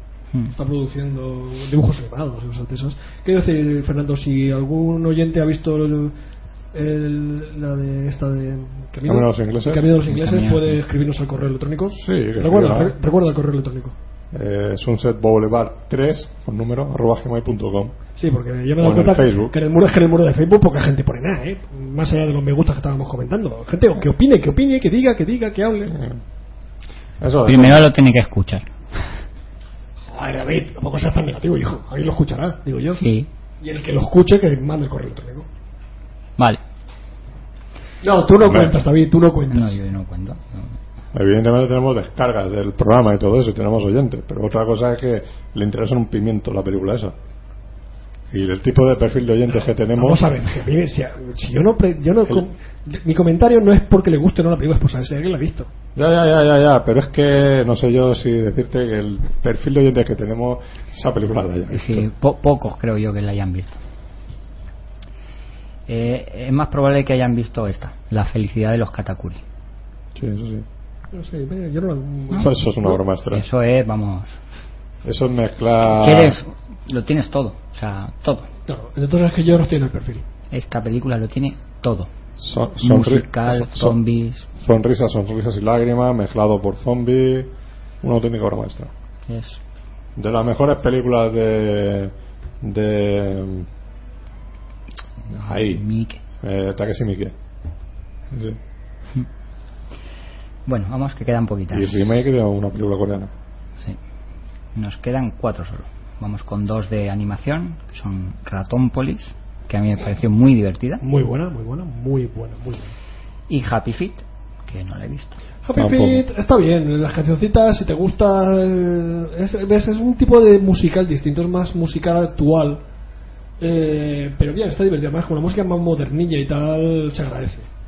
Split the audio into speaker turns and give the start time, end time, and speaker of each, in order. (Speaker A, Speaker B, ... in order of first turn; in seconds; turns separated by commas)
Speaker A: 0.5-6.1, Speaker A: 6.7-13.9, Speaker B: 9.0-9.9, Speaker C: 10.1-10.8, Speaker B: 11.9-12.9, Speaker B: 14.3-17.9, Speaker A: 18.2-25.9, Speaker B: 18.8-19.5, Speaker B: 25.9-26.2, Speaker B: 27.2-27.9, Speaker C: 27.4-28.7, Speaker A: 30.1-33.0, Speaker C: 33.0-33.3, Speaker A: 33.6-35.5, Speaker A: 38.0-39.7, Speaker B: 38.4-38.8, Speaker C: 39.5-40.7, Speaker B: 41.1-47.1, Speaker B: 48.3-50.3, Speaker A: 49.9-55.7, Speaker B: 55.9-62.1, Speaker C: 61.7-63.8, Speaker C: 65.9-69.4, Speaker B: 70.1-70.6, Speaker A: 71.1-73.0, Speaker B: 72.4-73.4, Speaker C: 73.3-74.4, Speaker B: 75.0-76.4, Speaker C: 75.9-78.5, Speaker A: 78.7-80.2, Speaker C: 80.5-82.1, Speaker B: 82.4-84.0, Speaker C: 82.8-84.5, Speaker B: 84.5-88.9, Speaker C: 89.3-89.6, Speaker B: 90.2-93.7, Speaker B: 95.3-95.8, Speaker C: 95.4-96.2, Speaker B: 96.4-97.3, Speaker B: 98.3-98.6, Speaker C: 100.7-101.9, Speaker B: 101.7-103.3, Speaker C: 104.7-111.0, Speaker A: 111.0-112.9, Speaker C: 113.5-115.3, Speaker A: 115.6-122.8, Speaker B: 115.7-116.2, Speaker A: 123.6-127.7